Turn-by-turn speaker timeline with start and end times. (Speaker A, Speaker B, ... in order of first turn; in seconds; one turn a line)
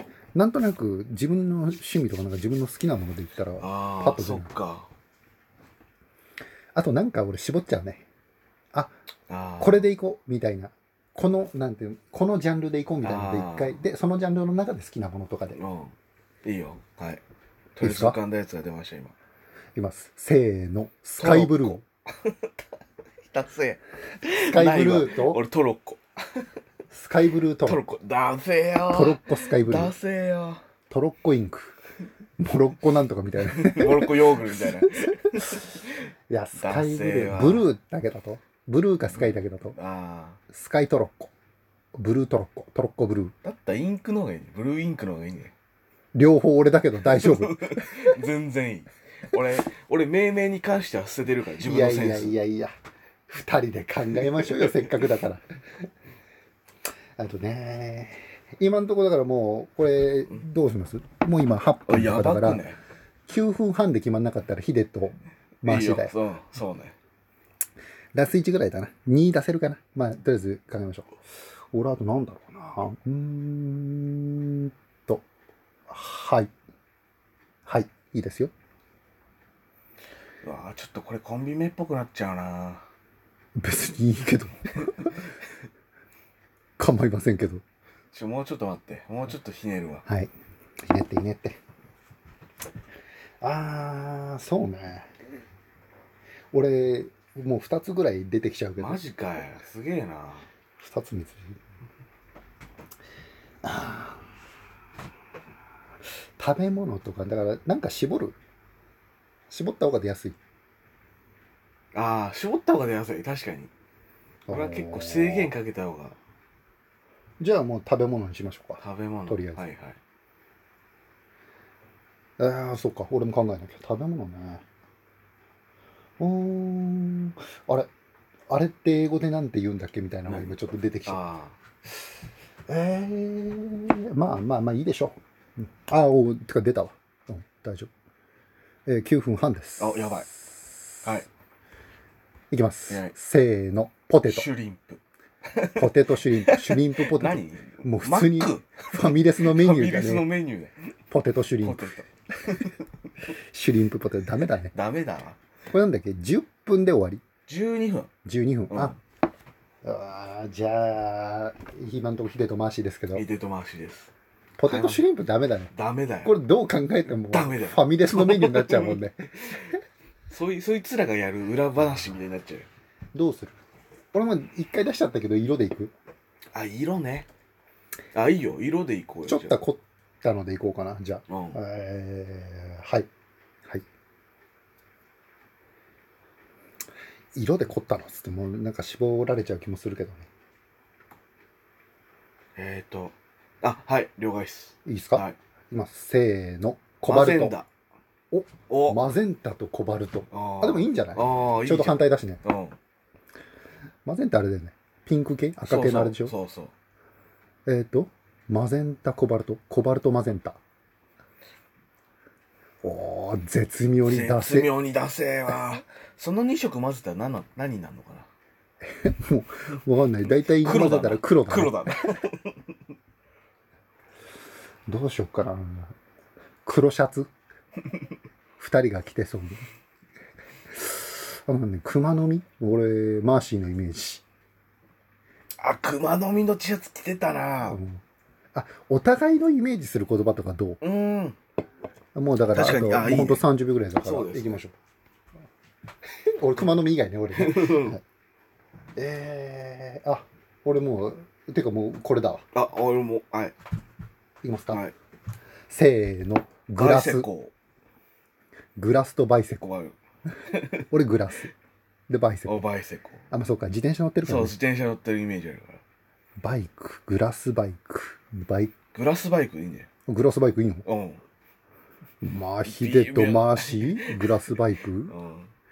Speaker A: 0.3-4.5
Speaker B: 3.6-4.9
Speaker A: 6.7-8.0
Speaker B: 9.3-9.9
Speaker A: 9.6-15.6
Speaker B: 13.0-13.8
Speaker B: 15.5-15.9
Speaker B: 16.4-17.2
Speaker B: 17.8-19.1
Speaker A: 17.8-18.2
Speaker A: 19.7-21.8
Speaker B: 21.2-22.4
Speaker B: 23.3-26.4
Speaker A: 24.5-25.4
Speaker A: 26.9-27.8
Speaker B: 27.6-30.6
Speaker A: 28.9-29.9
Speaker A: 30.9-31.8
Speaker A: 32.4-35.6
Speaker B: 33.4-35.9
Speaker A: 36.3-39.8
Speaker B: 36.5-37.7
Speaker B: 39.1-40.4
Speaker A: 40.5-41.3
Speaker A: 41.9-43.3
Speaker B: 43.4-45.5
Speaker A: 46.1-48.1
Speaker B: 47.0-52.4
Speaker A: 51.6-52.7
Speaker A: 53.3-55.4
Speaker A: 57.2-62.6
Speaker B: 61.9-62.8
Speaker A: 63.3-66.2
Speaker B: 65.6-67.0
Speaker A: 68.1-71.1
Speaker A: 71.7-75.2
Speaker A: 75.9-76.5
Speaker A: 77.7-78.5
Speaker B: 80.4-82.8
Speaker A: 83.5-85.2
Speaker A: 86.8-87.6
Speaker B: 88.1-90.0
Speaker A: 90.1-90.3
Speaker A: 90.8-91.6
Speaker A: 93.4-95.1
Speaker A: 96.5-99.0
Speaker B: 98.8-100.5
Speaker A: 100.8-101.6
Speaker A: 103.6-104.2
Speaker A: 106.4-108.3
Speaker A: 109.5-110.4
Speaker B: 111.9-113.7
Speaker A: 114.5-115.5
Speaker B: 114.5-116.2
Speaker A: 117.4-119.6
Speaker B: 118.8-120.0
Speaker A: 122.4-124.6
Speaker A: 126.2-127.9
Speaker A: 128.5-131.2
Speaker B: 130.3-131.6
Speaker A: 132.7-137.9
Speaker A: 138.8-141.1
Speaker B: 139.8-140.3
Speaker A: 142.5-144.5
Speaker B: 142.9-143.1
Speaker B: 144.2-150.8
Speaker A: 145.8-150.2
Speaker A: 151.1-151.9
Speaker B: 151.6-152.8
Speaker A: 153.4-154.7
Speaker B: 154.7-155.4
Speaker A: 155.7-157.2
Speaker B: 157.5-158.1
Speaker A: 158.2-158.9
Speaker B: 158.7-159.0
Speaker A: 159.8-163.2
Speaker B: 163.1-164.1
Speaker A: 164.6-165.7
Speaker B: 164.7-165.0
Speaker B: 165.7-166.3
Speaker A: 166.2-169.6
Speaker B: 167.3-169.7
Speaker B: 170.3-172.7
Speaker A: 173.1-173.6
Speaker A: 174.1-175.9
Speaker B: 176.5-177.3
Speaker B: 178.1-179.6
Speaker A: 179.3-183.1
Speaker B: 181.3-181.6
Speaker A: 187.3-190.3
Speaker B: 192.6-195.3
Speaker A: 194.8-197.6
Speaker B: 197.0-197.7
Speaker A: 198.3-202.4
Speaker B: 198.7-199.0
Speaker B: 200.3-202.7
Speaker A: 204.0-206.3
Speaker B: 205.6-206.7
Speaker A: 207.7-210.6
Speaker A: 212.8-214.7
Speaker B: 214.0-218.3
Speaker A: 218.9-222.0
Speaker B: 220.3-222.6
Speaker A: 224.9-225.9
Speaker A: 226.6-227.3
Speaker A: 228.6-229.6
Speaker A: 230.7-234.2
Speaker B: 235.6-237.8
Speaker A: 237.6-238.0
Speaker A: 238.5-240.8
Speaker B: 240.8-241.4
Speaker A: 242.1-244.7
Speaker B: 242.5-243.4
Speaker B: 244.0-244.6
Speaker A: 246.2-248.0
Speaker B: 247.3-248.0
Speaker A: 248.9-252.4
Speaker B: 252.5-253.5
Speaker A: 254.4-254.8
Speaker A: 255.7-257.3
Speaker B: 256.8-257.5
Speaker A: 258.8-259.6
Speaker B: 259.6-259.9
Speaker B: 260.5-260.8
Speaker A: 260.9-261.5
Speaker A: 262.1-262.6
Speaker B: 262.4-263.2
Speaker A: 263.3-264.6
Speaker B: 264.2-265.8
Speaker A: 266.4-268.7
Speaker B: 268.9-269.9
Speaker A: 270.1-270.9
Speaker B: 270.8-271.2
Speaker A: 272.2-275.1
Speaker B: 272.6-274.2
Speaker B: 275.1-275.5